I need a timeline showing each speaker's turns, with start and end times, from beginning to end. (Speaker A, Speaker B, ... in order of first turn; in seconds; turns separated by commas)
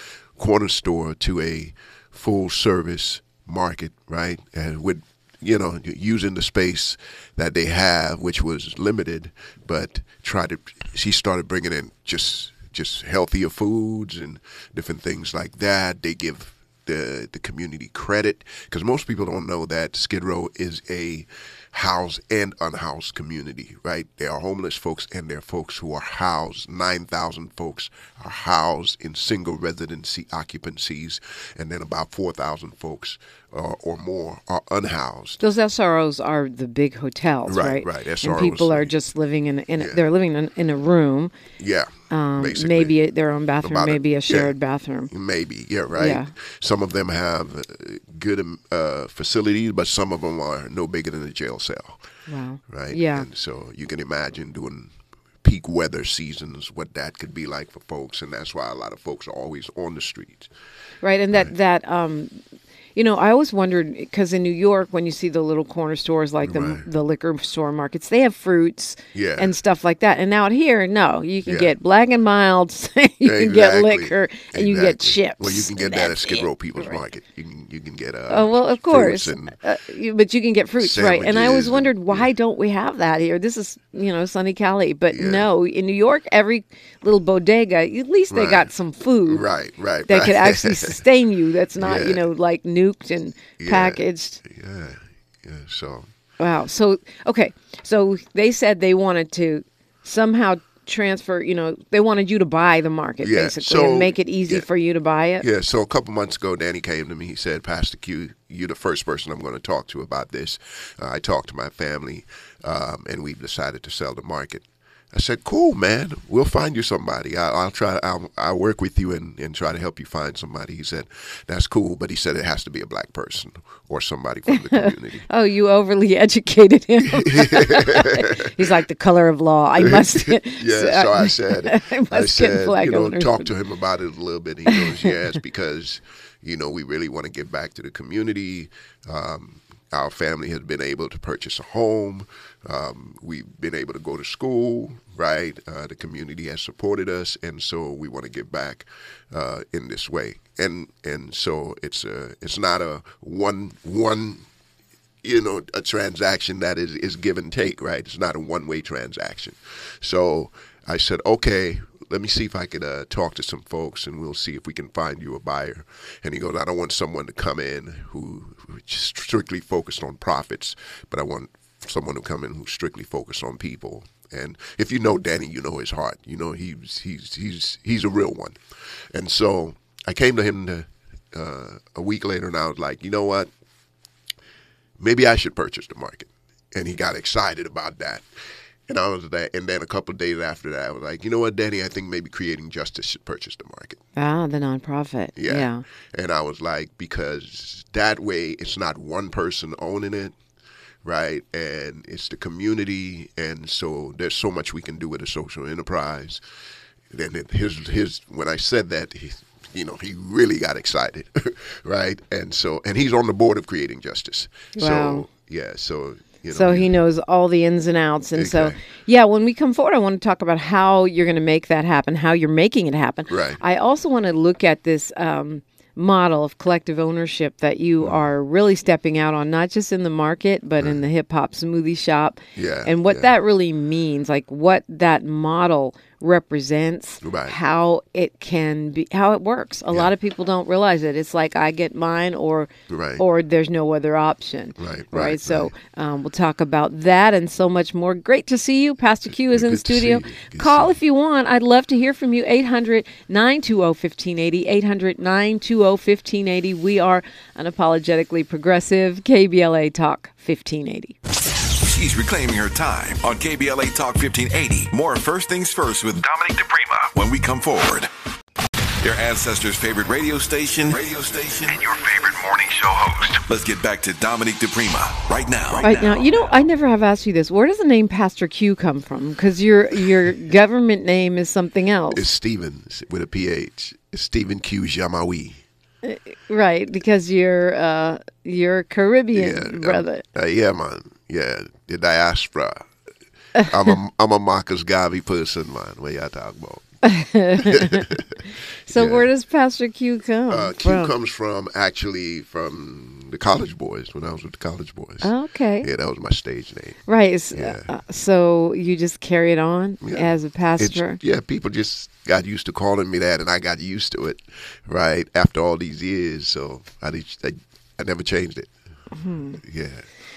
Speaker A: 0.4-35.4, Speaker B: 35.4-41.3, Speaker A: 37.5-38.9, Speaker A: 41.6-42.9, Speaker B: 42.1-45.1, Speaker A: 43.6-44.5, Speaker A: 45.1-52.0, Speaker B: 46.0-46.3, Speaker B: 52.3-53.3, Speaker A: 52.7-60.5, Speaker B: 61.0-62.4, Speaker B: 62.9-77.0, Speaker A: 66.4-66.8, Speaker A: 69.1-69.5, Speaker A: 71.4-71.7, Speaker A: 73.2-79.5, Speaker B: 78.3-89.5, Speaker A: 80.8-82.3, Speaker A: 85.1-85.5, Speaker A: 88.3-88.7, Speaker A: 89.3-91.0, Speaker B: 90.0-94.4, Speaker A: 91.8-92.2, Speaker A: 93.6-96.1, Speaker B: 96.4-105.5, Speaker A: 103.2-104.6, Speaker A: 105.4-125.3, Speaker B: 124.7-133.5, Speaker A: 127.0-128.5, Speaker A: 129.8-154.4, Speaker A: 155.2-178.6, Speaker A: 179.1-183.5, Speaker A: 185.0-188.2, Speaker A: 188.9-194.0, Speaker B: 194.2-195.8, Speaker A: 195.3-200.3, Speaker A: 201.0-206.4, Speaker A: 207.1-216.9, Speaker B: 214.7-215.2, Speaker B: 216.5-261.1, Speaker A: 218.3-218.8, Speaker A: 223.3-223.6, Speaker A: 232.6-233.3, Speaker A: 237.2-237.6, Speaker A: 242.9-243.2, Speaker A: 244.8-245.7, Speaker A: 249.4-250.9, Speaker C: 261.8-268.1, Speaker C: 269.0-276.2, Speaker B: 275.8-282.2, Speaker A: 282.1-285.6, Speaker B: 286.0-290.2, Speaker A: 289.3-292.9, Speaker A: 293.6-296.8, Speaker B: 297.0-298.1, Speaker A: 297.6-298.4, Speaker B: 298.9-301.1, Speaker A: 298.9-299.3, Speaker A: 300.5-305.3, Speaker B: 305.2-305.9, Speaker A: 305.8-307.0, Speaker B: 307.1-311.2, Speaker A: 307.5-307.9, Speaker A: 310.8-318.7, Speaker B: 319.1-319.6, Speaker A: 319.6-320.1